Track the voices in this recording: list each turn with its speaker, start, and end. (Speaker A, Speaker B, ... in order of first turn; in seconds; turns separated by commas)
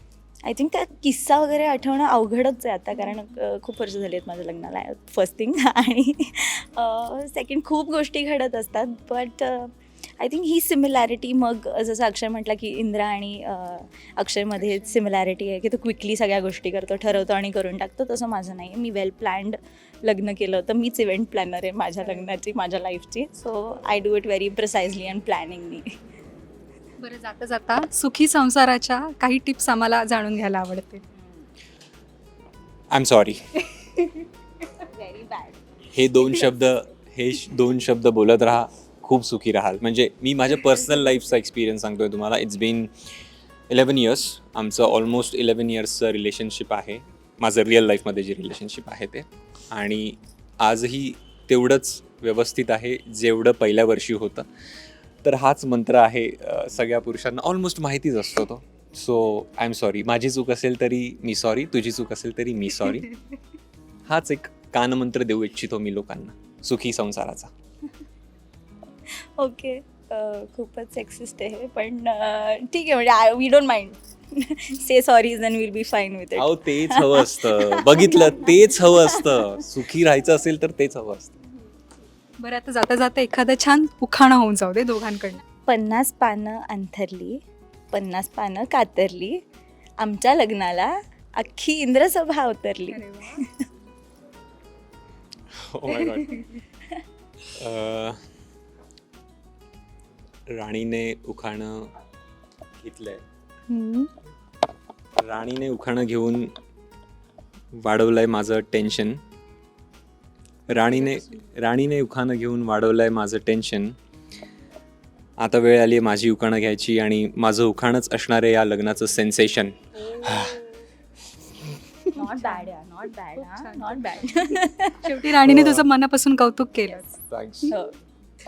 Speaker A: 0.5-25.9, Speaker B: 27.0-31.0, Speaker A: 31.1-31.5, Speaker C: 32.9-33.4, Speaker B: 34.0-34.2, Speaker A: 34.8-35.6, Speaker C: 35.9-42.9, Speaker C: 43.7-54.5, Speaker C: 55.2-63.1, Speaker C: 64.1-67.5, Speaker A: 69.1-79.6, Speaker C: 76.4-81.4, Speaker B: 82.4-85.4, Speaker A: 85.7-89.4, Speaker A: 90.0-93.6, Speaker B: 92.9-93.5, Speaker C: 95.5-96.5, Speaker B: 96.1-96.4, Speaker C: 97.5-98.2, Speaker C: 100.5-101.9, Speaker C: 102.8-103.2, Speaker B: 103.7-104.1, Speaker C: 105.2-106.5, Speaker C: 107.7-109.2, Speaker C: 110.7-114.0, Speaker B: 110.7-111.2, Speaker C: 115.4-120.5, Speaker A: 120.2-120.8, Speaker B: 122.2-122.7, Speaker A: 122.2-125.3, Speaker B: 123.4-127.1, Speaker C: 125.4-125.9, Speaker C: 127.3-127.8, Speaker A: 127.7-128.0